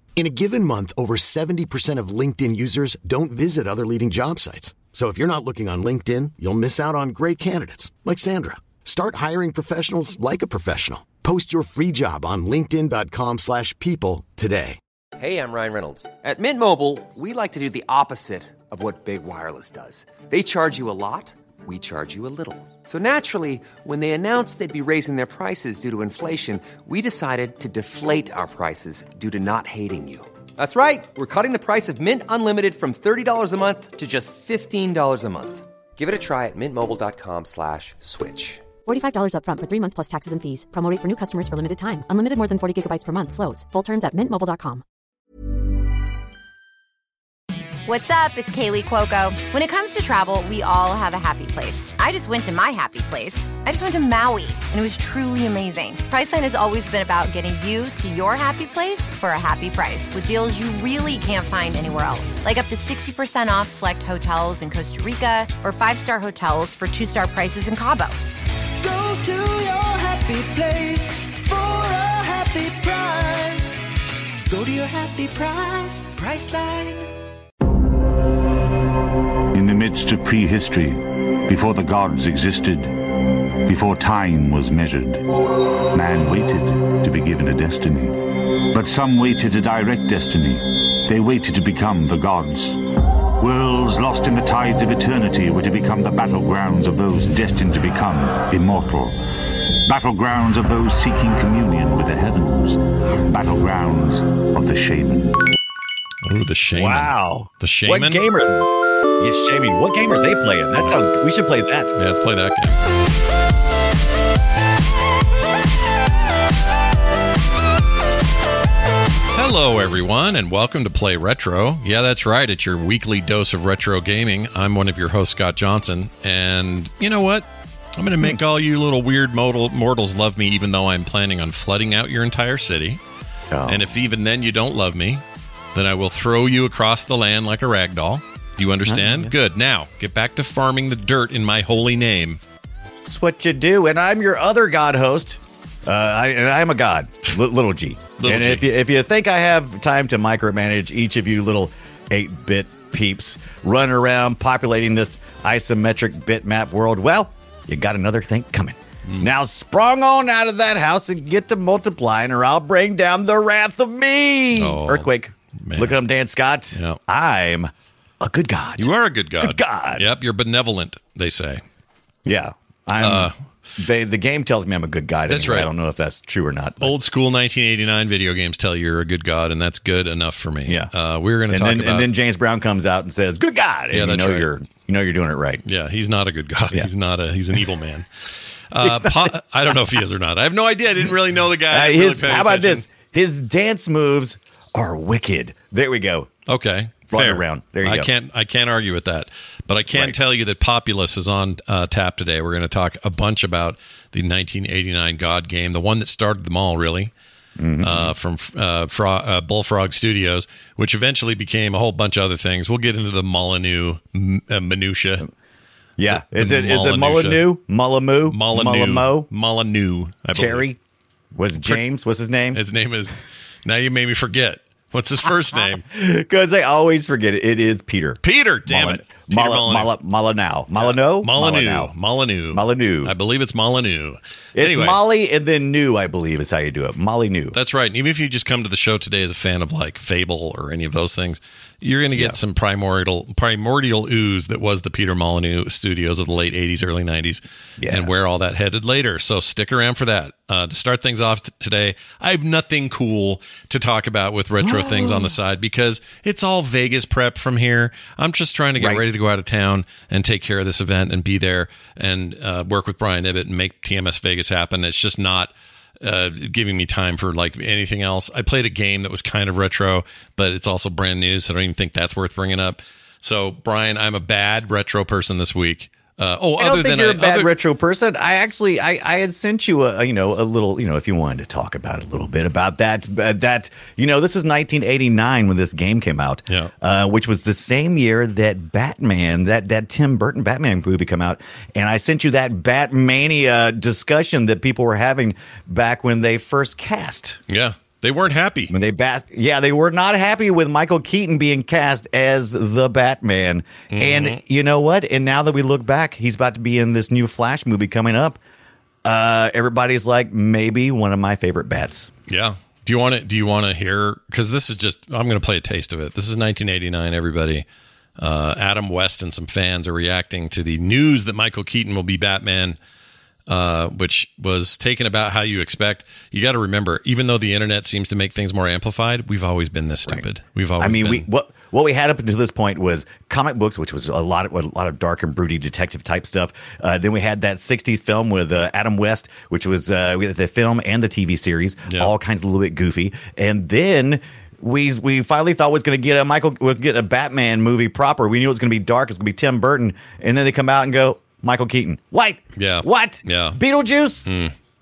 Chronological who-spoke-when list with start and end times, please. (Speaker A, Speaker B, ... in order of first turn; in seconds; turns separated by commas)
Speaker A: 0.1-14.8, Speaker B: 15.2-38.6, Speaker C: 38.8-44.8, Speaker D: 47.9-68.2, Speaker E: 68.8-73.8, Speaker E: 74.5-77.1, Speaker F: 79.5-83.0, Speaker F: 83.6-85.2, Speaker F: 85.9-92.8, Speaker F: 93.4-99.2, Speaker F: 99.8-105.5, Speaker G: 106.2-108.3, Speaker H: 106.7-108.7, Speaker H: 109.2-111.9, Speaker G: 111.9-112.9, Speaker G: 119.3-133.0, Speaker H: 133.5-133.8, Speaker G: 133.7-135.2, Speaker G: 135.7-142.4, Speaker H: 138.8-139.3, Speaker H: 143.0-168.9, Speaker G: 148.2-148.7, Speaker G: 164.6-166.0, Speaker G: 168.8-171.6, Speaker H: 169.4-170.1, Speaker H: 172.2-176.9, Speaker G: 173.0-173.3, Speaker G: 175.3-175.7, Speaker G: 176.8-182.1, Speaker H: 181.5-185.6, Speaker G: 183.9-184.5, Speaker G: 185.6-188.1, Speaker G: 188.7-192.8, Speaker H: 188.8-189.3, Speaker H: 191.7-196.3, Speaker G: 196.5-207.1, Speaker H: 197.1-198.1, Speaker H: 199.9-200.2, Speaker H: 207.6-208.1, Speaker G: 207.8-215.2, Speaker H: 216.0-219.3, Speaker G: 216.1-217.4, Speaker G: 218.3-220.7, Speaker H: 220.3-220.8, Speaker H: 221.3-222.6, Speaker G: 221.6-221.8, Speaker G: 222.5-225.8, Speaker H: 225.9-231.9, Speaker G: 228.2-229.9, Speaker G: 230.8-235.0, Speaker H: 232.5-233.1, Speaker H: 234.5-237.6, Speaker G: 237.5-277.5, Speaker H: 247.8-248.1, Speaker H: 254.6-255.3, Speaker H: 258.8-259.0, Speaker H: 276.6-297.4, Speaker G: 297.5-298.7, Speaker H: 298.7-308.4, Speaker G: 303.9-304.4, Speaker H: 309.0-312.1, Speaker G: 312.3-317.6, Speaker G: 318.2-322.8, Speaker G: 323.5-331.2, Speaker H: 330.8-354.3, Speaker G: 341.9-342.1, Speaker G: 352.6-353.6, Speaker G: 354.2-354.6